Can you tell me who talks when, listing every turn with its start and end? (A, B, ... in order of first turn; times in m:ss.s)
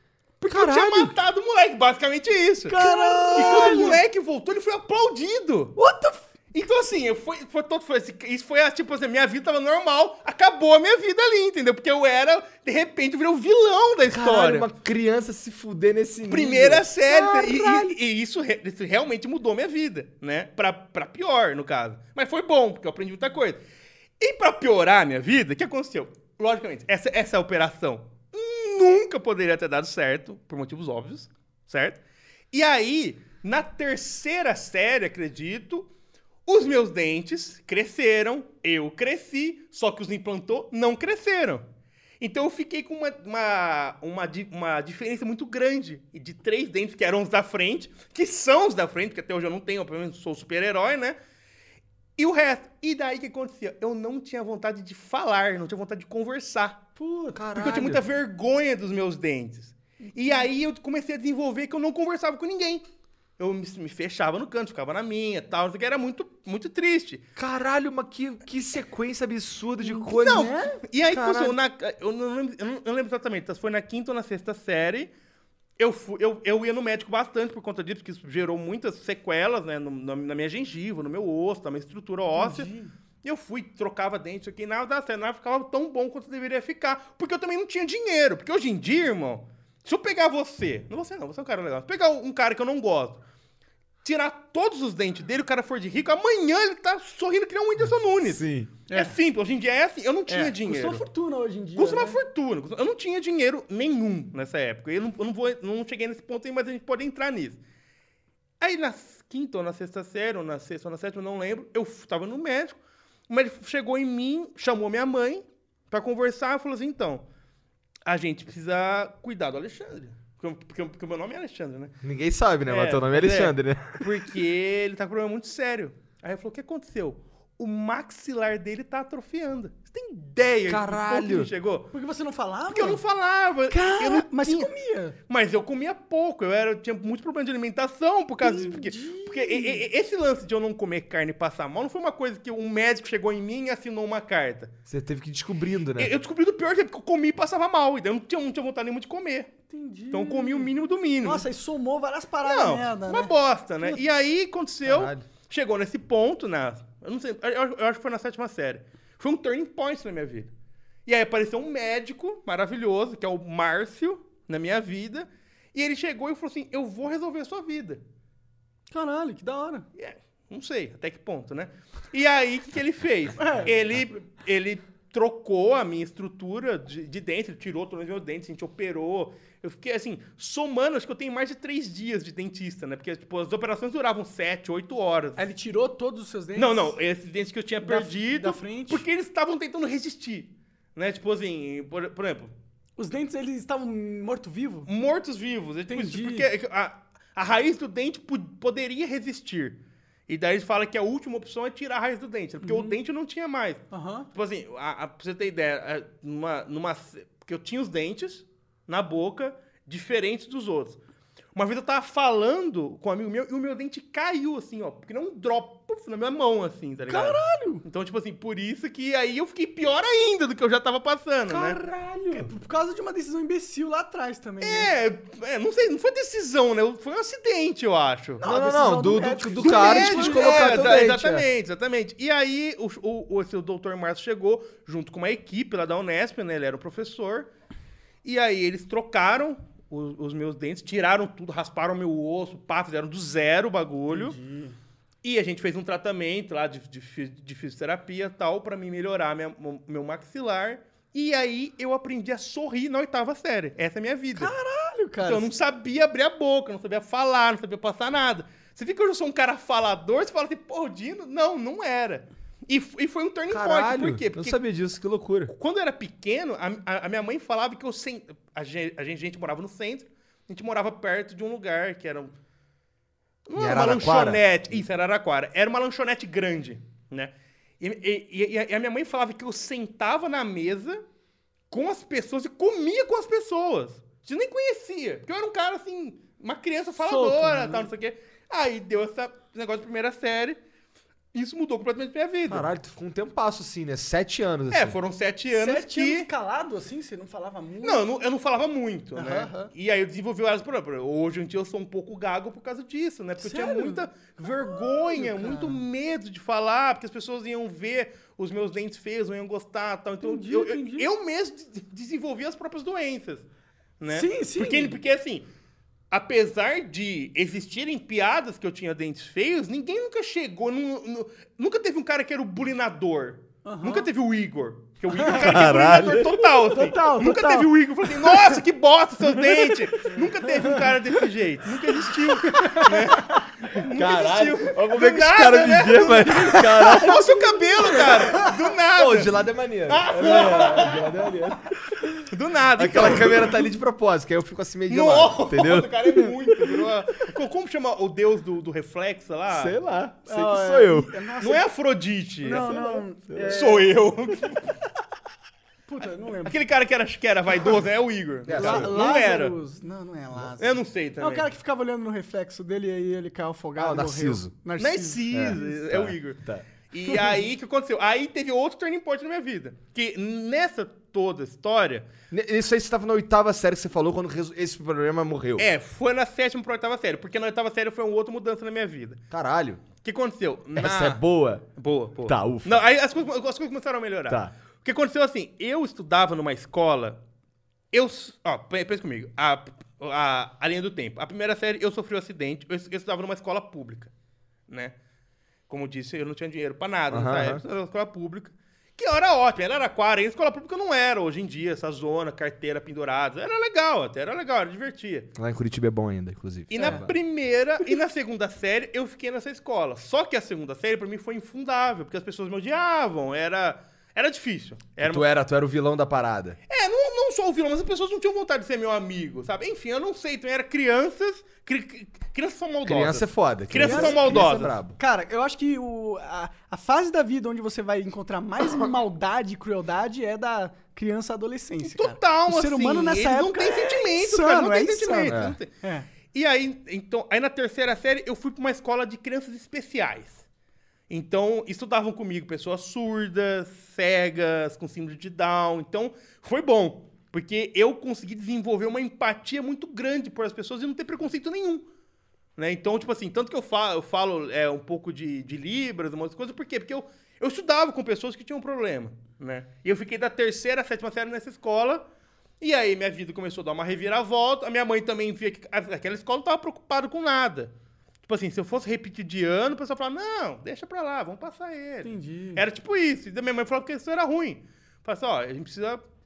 0:00.4-0:05.8 A
0:00.5-0:01.2 B
0:02.7-0:04.0 C
0:05.8-0:06.2 C
0:06.5-0:14.7 A
0:14.1-0:18.0 B
0:16.3-0:23.6 A
0:24.2-0:32.0 A
0:32.5-0:35.9 A
0:36.5-0:41.6 A
0:42.2-0:51.2 A
0:52.2-0:56.8 A
0:57.0-0:57.4 C
0:57.4-0:58.0 B
0:57.6-1:02.8 A
1:00.0-1:00.5 C
1:03.4-1:07.3 A
1:07.4-1:10.5 B
1:09.8-1:10.8 C
1:10.1-1:15.1 A
1:11.1-1:11.6 B
1:15.8-1:22.7 A
1:22.4-1:22.9 C
1:23.2-1:33.2 A
1:34.0-1:41.0 A
1:38.2-1:38.7 B
1:38.9-1:39.2 C
1:40.3-1:42.2 C
1:41.8-1:47.6 A
1:48.6-1:52.8 A
1:53.3-1:57.2 A
1:58.1-2:01.9 A
2:02.0-2:04.1 B
2:02.7-2:11.9 A
2:10.7-2:11.5 B
2:11.9-2:13.0 C
2:12.7-2:14.7 A
2:13.7-2:15.2 C
2:15.3-2:24.7 A
2:18.4-2:19.8 C
2:24.9-2:26.1 B
2:26.0-2:29.5 A
2:29.7-2:30.7 C
2:30.1-2:31.5 A
2:31.2-2:34.0 C
2:32.4-2:40.5 A
2:34.8-2:35.2 B
2:41.1-2:48.0 A
2:48.9-2:49.8 C
2:50.0-3:05.4 A
2:53.4-2:53.7 C
3:05.4-3:07.0 C
3:06.6-3:12.5 A
3:07.8-3:09.0 C
3:13.0-3:14.9 C
3:14.9-3:31.0 A
3:15.9-3:16.5 C
3:22.6-3:23.0 C
3:23.9-3:24.3 C
3:31.6-3:41.8 A
3:37.1-3:37.8 C
3:41.5-3:42.5 B
3:42.3-3:44.9 C
3:44.6-3:48.4 A
3:48.4-3:51.0 C
3:48.4-3:51.5 B
3:49.6-3:57.5 A
3:58.2-4:04.4 A
4:04.1-4:04.8 C
4:05.2-4:14.5 A
4:14.4-4:15.5 C
4:15.2-4:24.6 A
4:23.5-4:25.5 B
4:25.5-4:32.3 A
4:33.5-4:41.0 A
4:33.6-4:34.8 B
4:41.7-4:50.6 A
4:47.0-4:47.9 C
4:51.3-4:52.7 A
4:52.5-4:55.0 B
4:54.7-4:56.3 A
4:55.5-4:58.1 C
4:57.8-5:13.5 A
4:59.2-4:59.7 C
5:03.4-5:05.8 C
5:10.2-5:11.1 C
5:14.0-5:15.5 A
5:14.1-5:15.0 C
5:16.1-5:41.1 A
5:23.6-5:24.1 C
5:25.1-5:25.4 C
5:25.3-5:26.4 B
5:26.4-5:28.6 C
5:29.3-5:30.9 C
5:32.1-5:33.4 C
5:33.8-5:37.4 B
5:36.5-5:38.5 C
5:38.0-5:38.3 B
5:38.9-5:42.1 B
5:42.3-5:43.6 A
5:42.8-5:46.0 B
5:44.9-5:49.8 A
5:49.5-5:51.1 B
5:50.3-5:51.6 C
5:51.4-5:52.7 A
5:52.4-5:53.9 C
5:52.5-5:53.6 B
5:53.5-5:54.7 A
5:55.9-5:56.6 C
5:56.4-5:59.6 A
5:58.5-5:58.9 B
5:58.5-6:05.7 C
6:00.6-6:01.5 A
6:03.8-6:04.5 B
6:04.8-6:12.1 A
6:05.3-6:06.7 B
6:12.3-6:15.7 B
6:15.6-6:19.2 A
6:19.3-6:19.8 B
6:20.0-6:21.2 A
6:20.8-6:21.6 B
6:21.8-6:27.2 A
6:22.2-6:22.8 B
6:24.3-6:24.5 B
6:27.9-6:34.1 A
6:34.7-6:35.0 A
6:35.7-6:45.3 A
6:37.1-6:37.6 B
6:45.4-6:47.2 B
6:46.7-6:55.2 A
6:55.0-6:56.6 B
6:56.7-7:04.8 A
7:02.8-7:05.0 B
7:03.8-7:16.1 C
7:11.8-7:15.7 A
7:15.3-7:15.6 B
7:16.3-7:20.4 A
7:21.1-7:31.9 A
7:32.6-7:42.0 A
7:42.6-7:47.7 A
7:48.2-7:56.0 A
7:52.0-7:52.6 C